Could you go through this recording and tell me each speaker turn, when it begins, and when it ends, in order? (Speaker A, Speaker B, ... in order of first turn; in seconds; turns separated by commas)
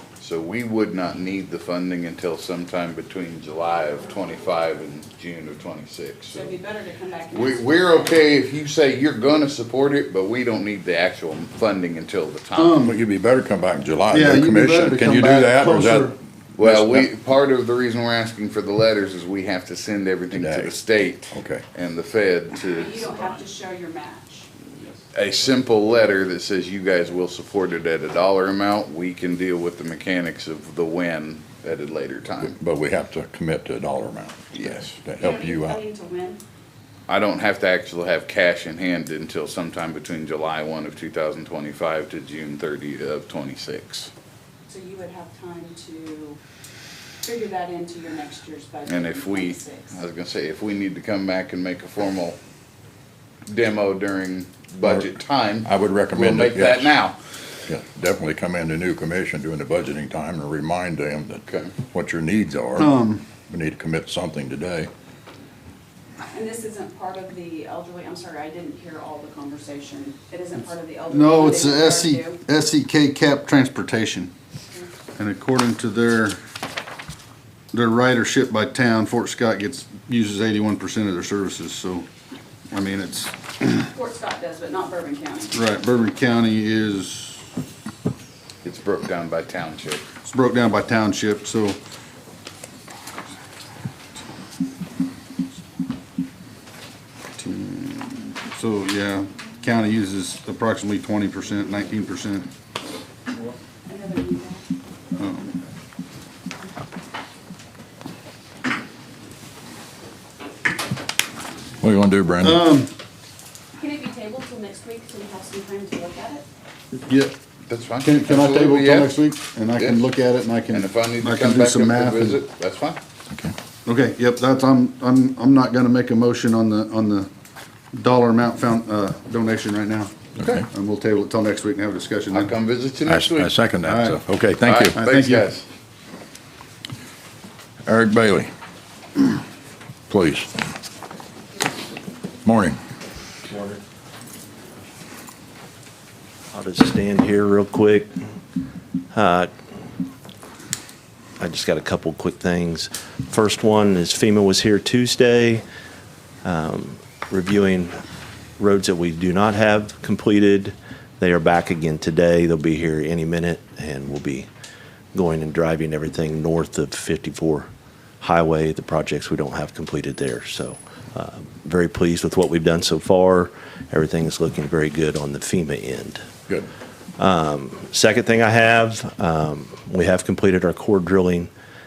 Speaker A: 0.2-6.5, Speaker B: 6.3-8.2, Speaker A: 7.3-12.8, Speaker C: 12.6-13.0, Speaker D: 12.8-17.1, Speaker C: 14.1-16.1, Speaker A: 16.6-23.3, Speaker D: 20.3-20.8, Speaker D: 21.3-21.6, Speaker B: 22.6-24.5, Speaker A: 25.1-32.6, Speaker D: 32.4-35.8, Speaker A: 34.5-34.9, Speaker B: 35.2-36.4, Speaker A: 37.1-44.1, Speaker B: 44.7-46.4, Speaker B: 47.2-50.0, Speaker A: 48.9-52.4, Speaker A: 53.5-57.2, Speaker D: 55.6-56.9, Speaker D: 57.7-62.9, Speaker A: 61.5-61.7, Speaker C: 62.8-63.2, Speaker D: 63.5-64.9, Speaker B: 66.2-72.4, Speaker C: 71.1-74.3, Speaker C: 75.2-76.4, Speaker C: 77.7-82.1, Speaker C: 82.7-83.4, Speaker B: 83.8-85.6, Speaker C: 85.5-87.5, Speaker A: 88.6-90.0, Speaker C: 90.2-91.8, Speaker C: 97.4-102.5, Speaker B: 103.8-104.6, Speaker C: 105.2-105.6, Speaker D: 111.8-112.6, Speaker C: 112.4-112.9, Speaker B: 113.8-116.5, Speaker C: 117.1-117.3, Speaker A: 117.7-119.2, Speaker C: 118.0-122.4, Speaker A: 119.8-120.1, Speaker A: 120.7-123.0, Speaker C: 123.8-127.3, Speaker C: 127.9-132.5, Speaker D: 130.4-130.7, Speaker A: 132.3-133.5, Speaker D: 133.1-135.0, Speaker C: 133.8-134.2, Speaker A: 134.6-135.7, Speaker C: 134.9-135.5, Speaker D: 137.9-138.5, Speaker D: 140.1-140.5, Speaker D: 142.4-142.8, Speaker E: 146.5-148.1, Speaker E: 149.1-149.5, Speaker E: 151.4-155.6, Speaker E: 156.4-158.0, Speaker E: 158.6-164.5, Speaker E: 165.1-167.7, Speaker E: 168.2-176.2, Speaker E: 177.2-181.5